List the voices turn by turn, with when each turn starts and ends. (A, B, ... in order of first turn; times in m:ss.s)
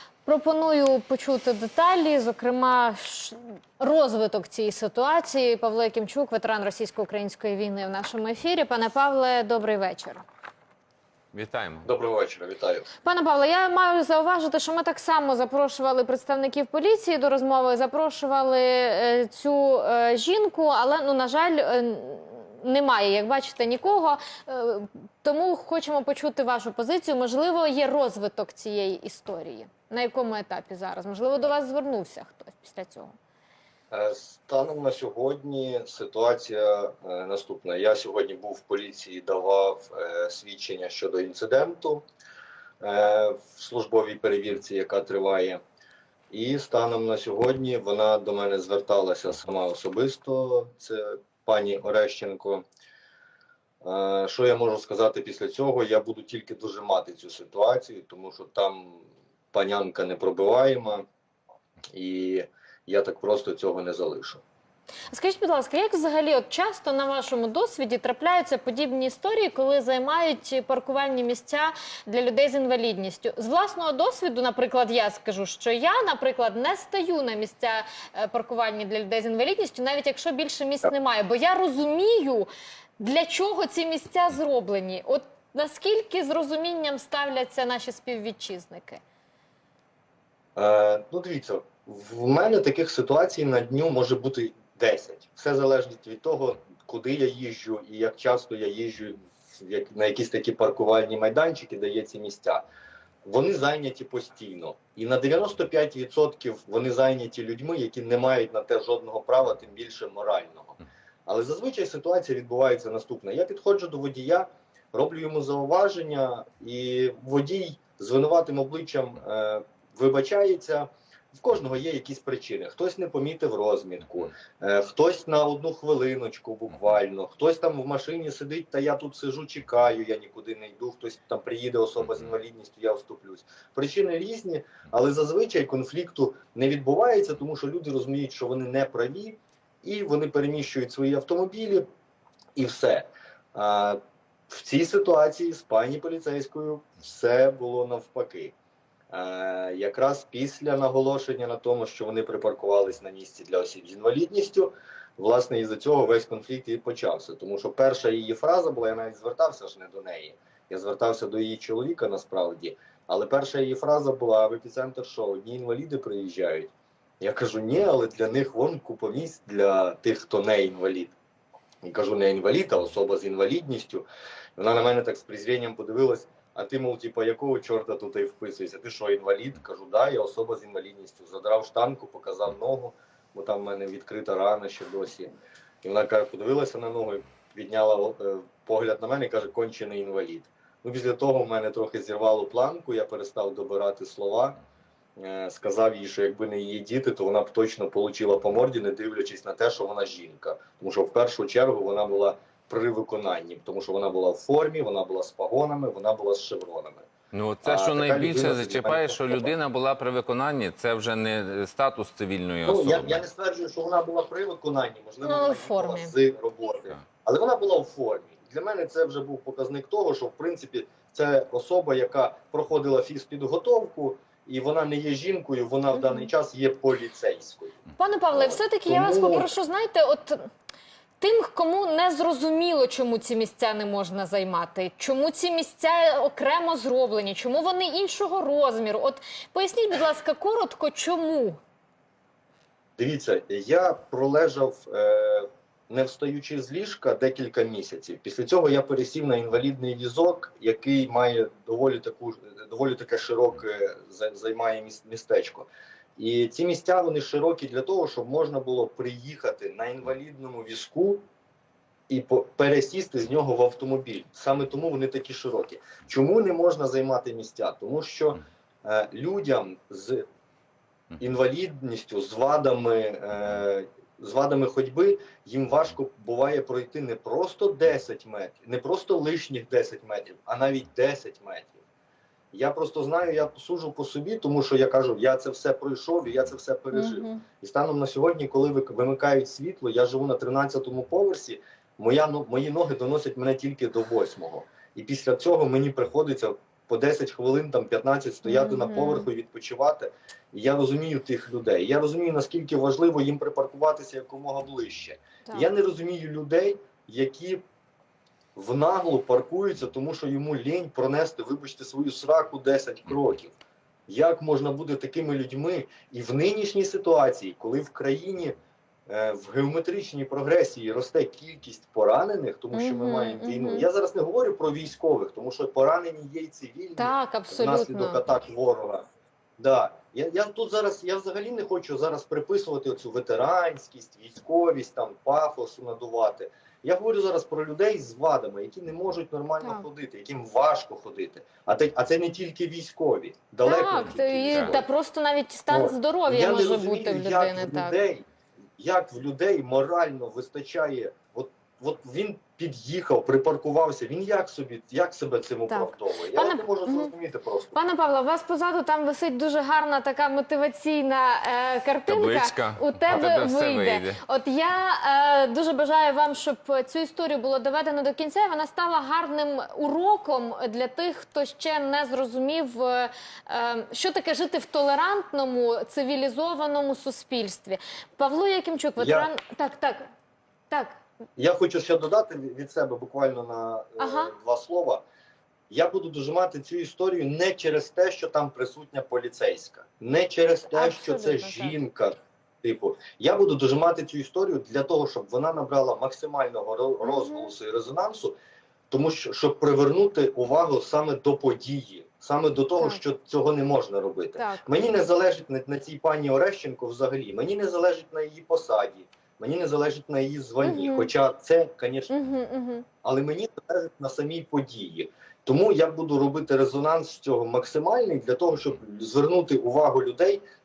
0:00.2-0:10.2 A
0:11.3-0:11.9 B
0:11.8-0:12.9 C
0:13.0-0:33.2 A
0:33.9-0:42.0 C
0:42.8-0:45.6 C
0:46.3-0:52.7 C
0:53.8-1:01.0 C
1:01.9-1:04.4 C
1:05.1-1:29.0 A
1:30.6-1:42.6 C
1:43.2-2:21.9 C
2:22.6-2:28.5 C
2:29.1-2:51.2 C
2:51.8-3:14.6 C
3:15.2-3:27.1 C
3:27.3-3:33.2 B
3:27.6-3:29.5 C
3:32.6-3:49.5 C
3:35.2-3:36.1 A
3:45.9-3:46.3 A
3:48.0-3:50.5 A
3:51.2-4:01.6 A
4:03.0-4:21.2 C
4:22.1-4:30.2 C
4:31.2-4:41.8 C
4:42.5-5:07.6 C
4:46.9-4:47.4 A
4:58.4-4:59.3 A
5:05.4-5:05.7 A
5:08.6-5:13.5 C
5:14.1-5:18.6 C
5:19.1-5:29.1 C
5:22.7-5:23.9 A
5:27.0-5:28.2 A
5:29.6-5:44.8 C
5:43.6-5:48.0 A
5:44.5-5:44.8 B
5:45.7-5:48.3 C
5:48.8-5:57.8 C
5:55.7-5:57.1 A
5:57.7-6:20.1 A
6:02.1-6:04.2 B
6:19.0-6:19.3 C
6:20.7-6:21.0 A
6:21.4-6:25.0 C
6:24.0-6:24.3 A
6:25.7-6:38.4 C
6:30.7-6:31.8 A
6:37.0-6:37.5 A
6:38.9-6:52.1 C
6:42.8-6:43.0 A
6:44.4-6:44.6 A
6:50.6-6:51.1 A
6:52.1-6:52.9 A
6:53.0-7:00.4 C